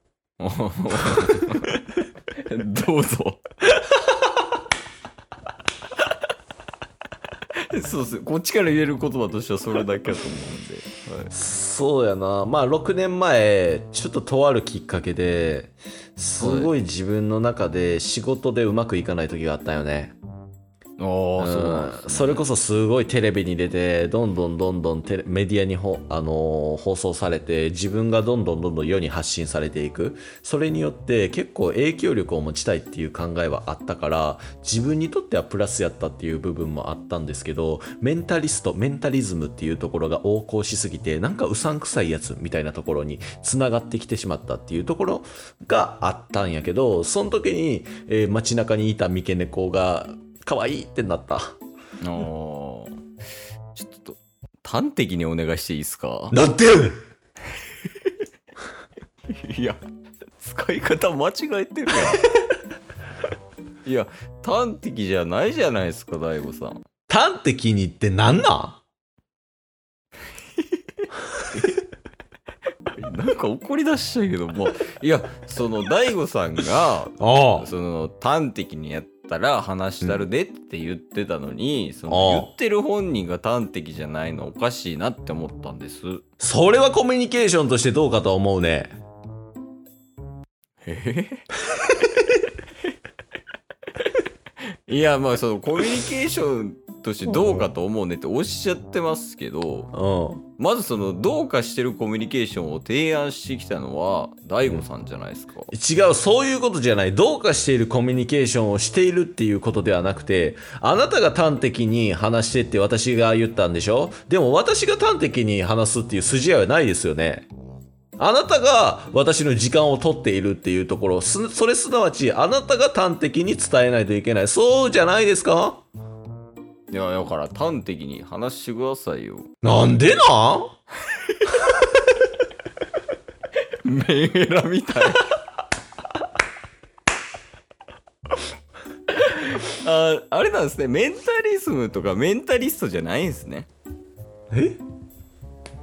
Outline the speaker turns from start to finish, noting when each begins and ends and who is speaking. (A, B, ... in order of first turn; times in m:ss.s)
0:00.4-0:03.7 A
0:07.6-0:11.3 A
0:11.3-0:20.2 B
0:16.4-0:16.7 A
0:21.0-0:22.4 A
0:21.4-0:51.5 B
0:52.0-0:53.0 A
0:53.8-0:56.3 A
0:56.3-0:57.0 B
0:57.8-0:58.2 A
0:59.3-0:59.8 A
1:00.4-1:02.3 A
1:03.8-1:06.8 A
1:07.1-1:08.8 B
1:10.6-1:11.8 A
1:12.9-1:26.2 A
1:17.2-1:17.7 B
1:22.1-1:22.5 B
1:26.4-1:29.0 B
1:30.8-1:31.5 A
1:34.6-1:39.9 A
1:39.9-1:40.4 B
1:40.6-1:45.7 A
1:45.7-1:57.5 B
1:58.2-2:05.8 B
2:06.9-2:09.5 A
2:09.6-2:10.7 B
2:11.1-2:11.7 A
2:13.8-2:15.4 A
2:19.1-2:23.7 A
2:24.5-2:24.8 B